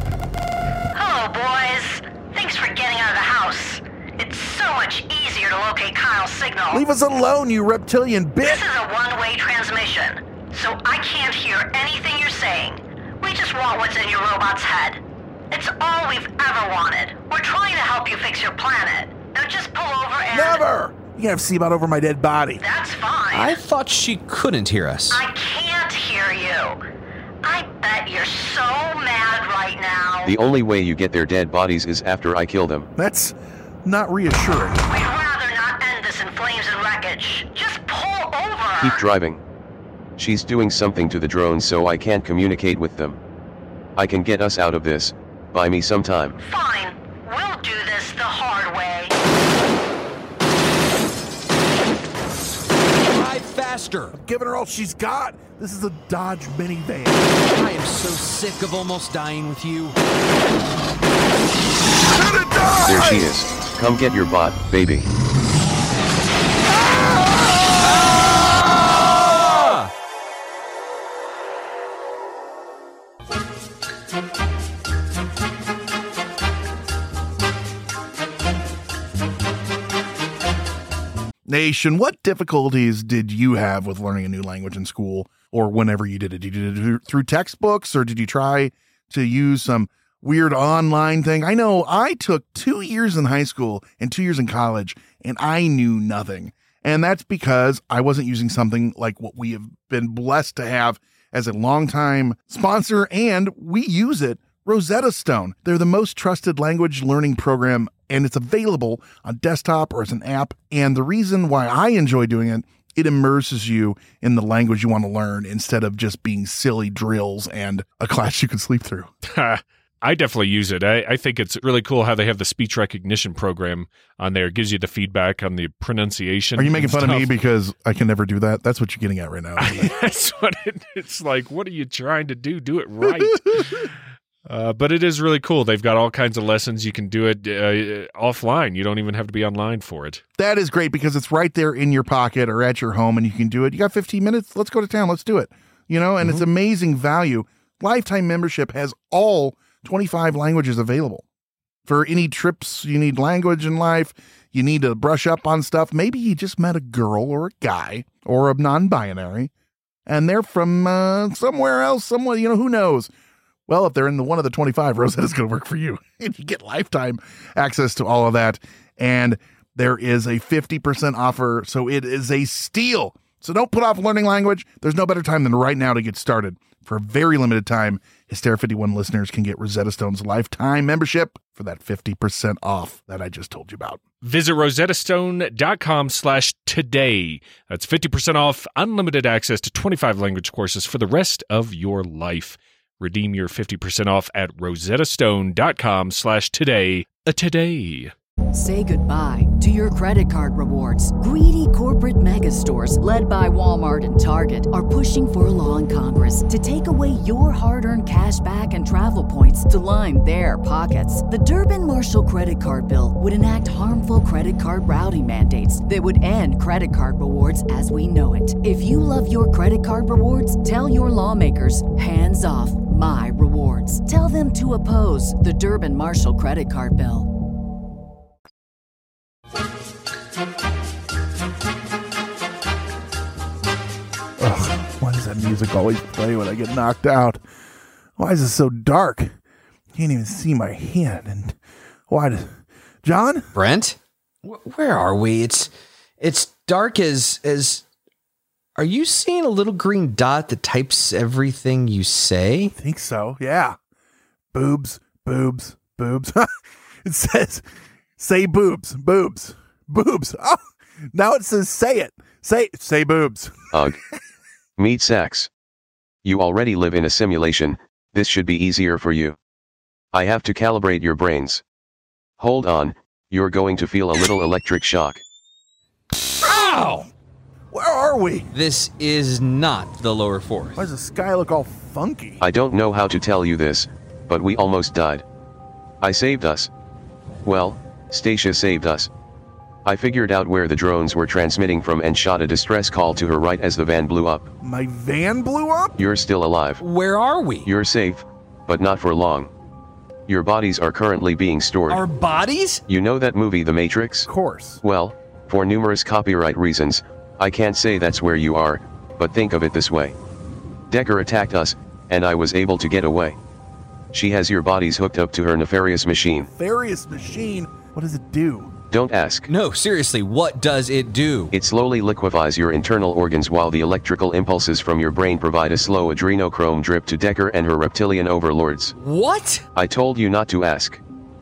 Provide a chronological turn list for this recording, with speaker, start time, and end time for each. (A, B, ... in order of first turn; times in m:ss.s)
0:00.9-0:06.8 A
0:06.7-0:08.6 B
0:08.4-0:15.0 A
0:15.5-0:20.6 A
0:20.3-0:22.6 B
0:22.6-0:23.6 A
0:23.3-0:25.2 C
0:25.1-0:26.8 A
0:27.4-0:30.3 A
0:30.2-0:32.9 D
0:33.0-0:34.8 B
0:34.9-0:39.0 A
0:38.8-0:39.4 D
0:40.2-0:43.2 D
0:44.0-0:46.4 D
0:46.4-0:49.1 A
0:53.1-0:54.2 C
0:54.1-0:57.3 B
0:57.5-1:00.0 C
1:02.1-1:03.3 B
1:02.9-1:05.1 D
1:09.2-1:09.9 C
1:21.5-1:59.1 B
1:59.2-2:07.3 E
2:06.6-2:09.9 B
2:09.6-2:13.9 E
2:13.2-2:13.7 B
2:14.5-2:20.2 E
2:20.4-2:31.2 B
2:31.9-2:39.5 B
2:40.1-2:43.1 B
2:43.7-3:04.0 B
3:04.2-3:18.1 E
3:18.5-3:47.3 F
3:54.4-3:57.4 B
3:58.2-3:59.3 B
3:59.9-4:01.6 B
4:02.1-4:03.5 B
4:03.5-4:05.7 C
4:06.2-4:07.8 C
4:08.8-4:12.7 C
4:12.8-4:13.8 B
4:14.5-4:16.5 B
4:17.0-4:17.6 B
4:18.2-4:20.6 B
4:21.1-4:23.7 B
4:23.7-4:24.0 D
4:24.8-4:25.5 D
4:26.2-4:29.4 D
4:30.1-4:31.6 D
4:32.4-4:35.2 D
4:36.4-4:37.1 B
4:36.6-4:37.0 C
4:37.7-4:38.5 B
4:38.5-4:40.8 C
4:40.8-4:42.4 B
4:42.4-4:45.2 D
4:46.0-4:46.7 D
4:47.4-4:49.1 D
4:49.8-4:54.5 D
4:54.6-4:56.0 B
4:56.0-4:56.8 D
4:56.8-4:57.7 C
4:57.6-4:59.5 D
5:00.3-5:02.0 D
5:01.9-5:02.8 C
5:02.9-5:04.3 D
5:04.3-5:04.8 B
5:04.8-5:10.2 D
5:10.9-5:13.4 D
5:14.1-5:16.5 D
5:16.5-5:18.7 B
5:18.9-5:19.5 D
5:19.5-5:21.5 C
5:21.5-5:29.0 D
5:29.0-5:29.6 C
5:29.8-5:31.0 D